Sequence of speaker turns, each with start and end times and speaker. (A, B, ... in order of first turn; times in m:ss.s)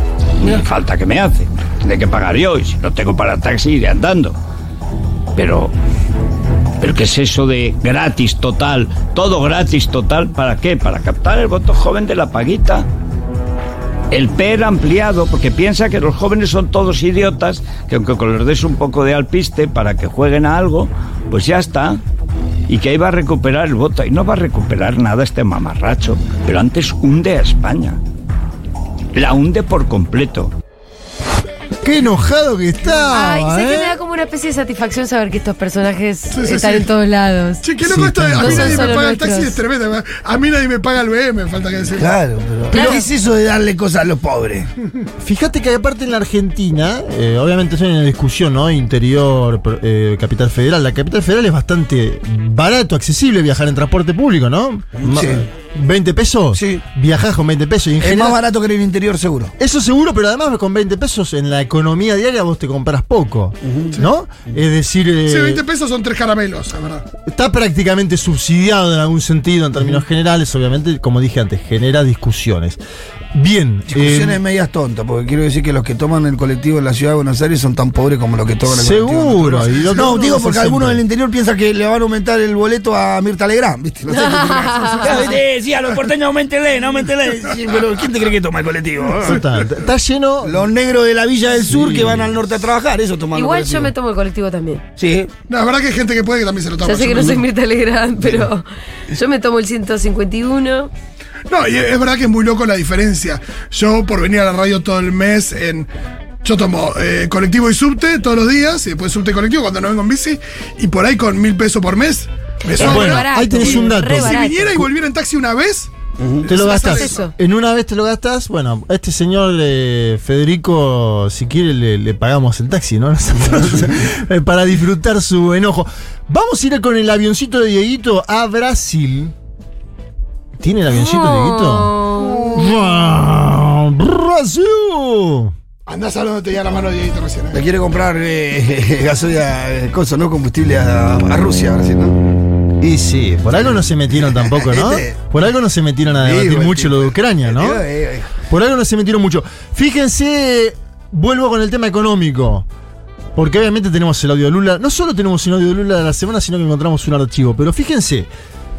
0:00.4-0:04.4 A
0:05.4-0:05.7 A
0:06.8-0:12.9 A
0:14.1-0:22.0 A
0:22.7-0:28.0 A
0:29.1-0:30.5 A
0:31.8-0:34.0 B
0:33.1-0:37.6 C
0:36.3-0:36.9 D
0:37.6-0:42.2 D
0:37.8-0:39.0 B
0:38.4-0:39.6 C
0:42.0-0:44.7 E
0:42.7-0:43.1 C
0:45.2-0:58.4 B
0:55.0-0:55.5 E
0:56.5-0:56.8 E
0:58.0-0:59.5 E
0:59.6-1:05.6 B
1:03.6-1:04.0 E
1:05.3-1:07.0 D
1:07.3-1:12.8 B
1:13.3-1:14.4 B
1:13.9-1:29.4 E
1:18.7-1:21.0 B
1:24.1-1:25.4 C
1:29.2-1:30.6 B
1:30.4-1:33.9 E
1:31.7-1:32.4 B
1:33.3-1:34.8 C
1:35.0-1:35.3 E
1:35.5-1:37.4 D
1:36.8-1:40.9 C
1:41.5-1:45.9 D
1:46.4-1:57.3 D
1:52.7-1:54.8 C
1:52.8-1:54.8 B
1:56.2-1:56.5 E
1:56.5-2:09.3 B
1:56.6-1:57.3 C
2:10.6-2:12.0 B
2:10.9-2:12.6 C
2:12.3-2:12.6 D
2:12.5-2:15.5 B
2:15.9-2:17.6 D
2:17.5-2:22.2 E
2:22.8-2:27.8 B
2:24.2-2:25.2 E
2:26.2-2:28.3 E
2:28.5-2:32.7 B
2:33.4-2:38.3 B